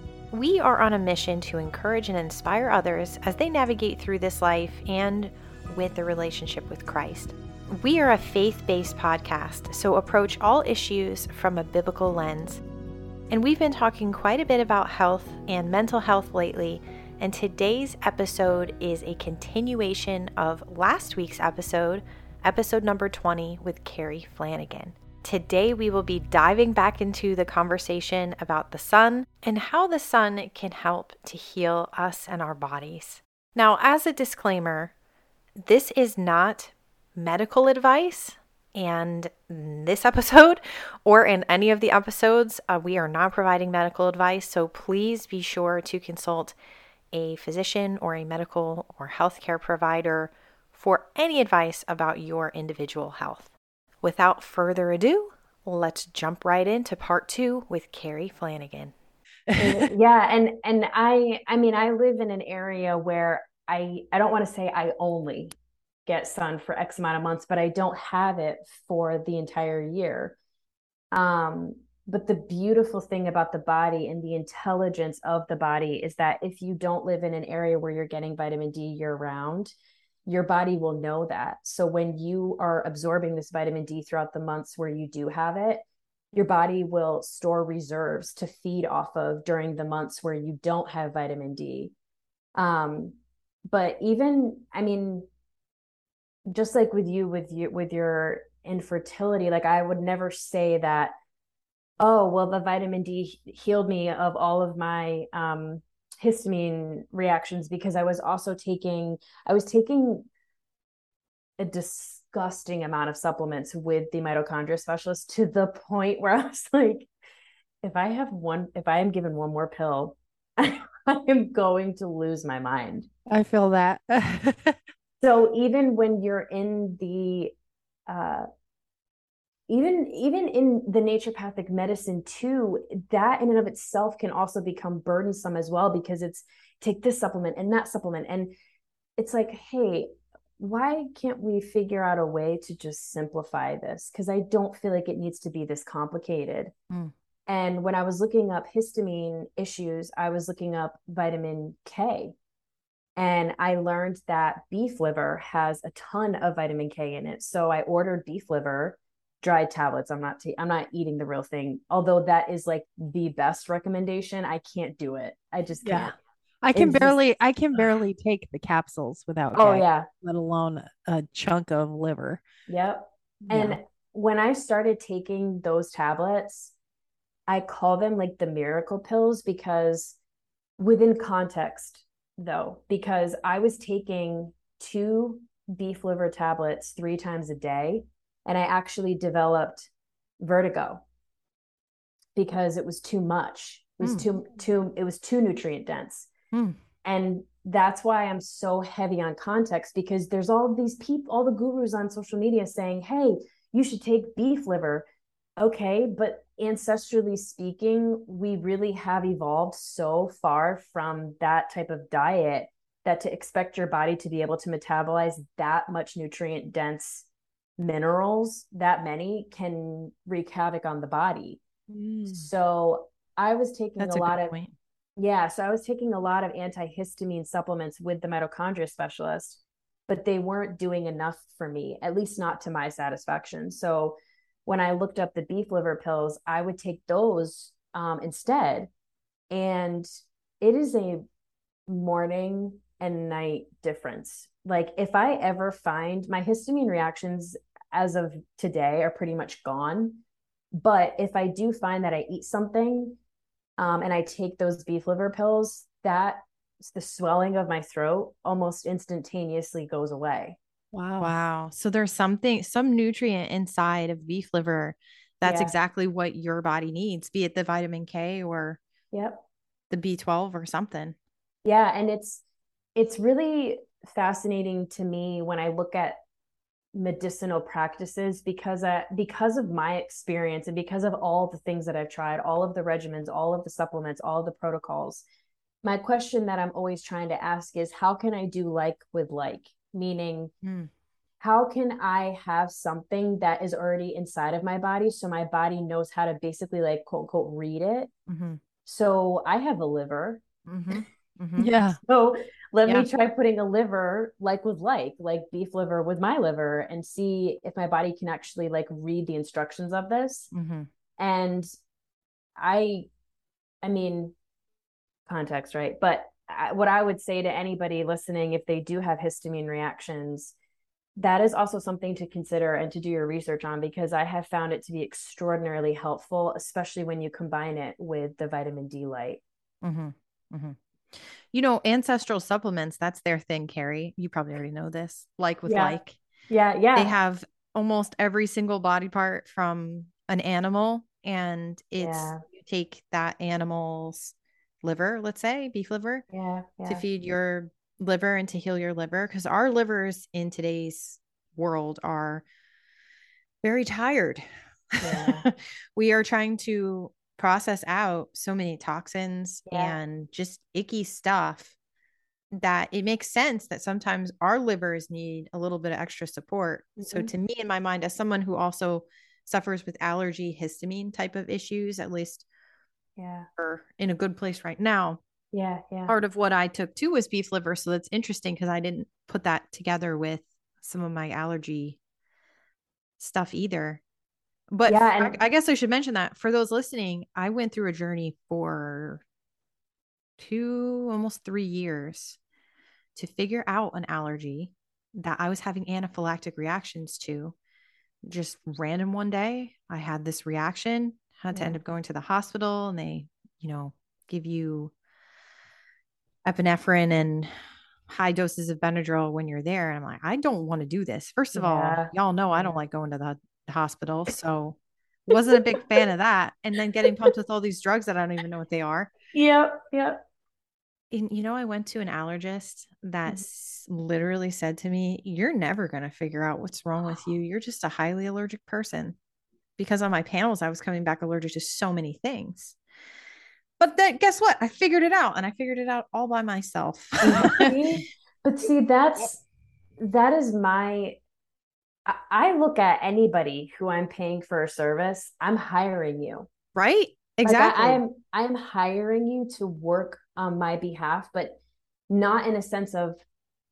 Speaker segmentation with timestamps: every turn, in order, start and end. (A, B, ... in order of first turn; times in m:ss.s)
0:00.3-0:12.6 A
0:13.3-0:34.9 A
0:35.6-0:46.6 A
0:47.1-0:53.5 A
0:54.0-0:59.0 A
0:59.5-0:59.9 B
0:59.6-1:05.5 C
1:06.1-1:10.4 C
1:11.1-1:19.8 C
1:20.3-1:31.9 C
1:32.6-1:33.2 C
1:33.7-1:35.3 C
1:36.5-1:41.1 C
1:42.0-1:50.3 C
1:51.6-1:57.1 C
1:57.8-2:03.1 C
2:03.3-2:04.8 B
2:05.2-2:07.5 C
2:08.1-2:08.5 C
2:09.7-2:18.6 C
2:19.2-2:26.7 C
2:27.5-2:32.4 C
2:33.2-2:46.1 C
2:45.8-2:52.4 B
2:46.8-2:47.2 C
2:49.6-2:50.1 C
2:52.7-2:56.7 C
2:53.5-2:53.8 B
2:57.5-3:00.2 C
3:00.8-3:11.0 C
3:12.4-3:16.3 C
3:14.0-3:14.3 A
3:16.5-3:16.8 A
3:17.0-3:25.0 C
3:25.6-3:37.3 C
3:37.8-3:41.6 C
3:41.9-3:42.5 B
3:42.3-3:44.5 C
3:44.0-3:44.7 A
3:45.2-3:58.9 C
3:59.5-4:00.1 C
4:00.6-4:01.2 C
4:01.9-4:10.2 C
4:10.7-4:13.2 C
4:13.8-4:20.6 C
4:20.9-4:21.3 B
4:21.2-4:28.8 A
4:25.4-4:25.8 C
4:29.1-4:29.4 C
4:29.9-4:31.2 A
4:31.6-4:32.4 C
4:33.0-4:36.2 C
4:36.9-4:45.2 C
4:45.8-4:50.5 C
4:50.6-4:50.9 A
4:51.4-4:58.1 C
4:58.3-4:58.6 A
4:58.8-5:00.9 C
5:00.7-5:01.7 A
5:01.6-5:02.0 B
5:02.0-5:10.5 C
5:10.5-5:10.9 A
5:11.2-5:11.7 C
5:12.6-5:13.1 C
5:13.8-5:14.3 C
5:15.3-5:20.6 C
5:21.2-5:29.4 C
5:29.8-5:36.2 A
5:35.7-5:36.0 C
5:36.5-5:37.2 C
5:37.0-5:46.3 A
5:42.0-5:42.4 C
5:46.3-5:47.0 C
5:46.9-5:52.4 A
5:53.6-6:01.7 A
5:55.0-5:55.5 C
5:59.7-6:00.0 C
6:02.5-6:12.4 A
6:07.0-6:07.3 C
6:13.2-6:13.5 C
6:13.6-6:15.2 A
6:15.5-6:16.2 C
6:16.1-6:22.0 A
6:23.2-6:24.0 A
6:24.7-6:29.2 A
6:24.9-6:25.4 C
6:30.4-6:32.4 A
6:33.2-6:37.6 A
6:38.3-6:44.9 A
6:41.5-6:41.8 C
6:46.4-6:47.5 A
6:48.1-6:54.8 A
6:51.5-6:52.8 C
6:55.3-6:59.1 A
6:55.3-6:56.0 C
6:59.3-7:00.2 C
7:01.1-7:09.2 A
7:09.8-7:12.8 A
7:13.8-7:17.8 A
7:17.2-7:19.4 C
7:20.0-7:21.2 C
7:22.1-7:26.5 C
7:26.8-7:28.0 A
7:27.4-7:33.2 C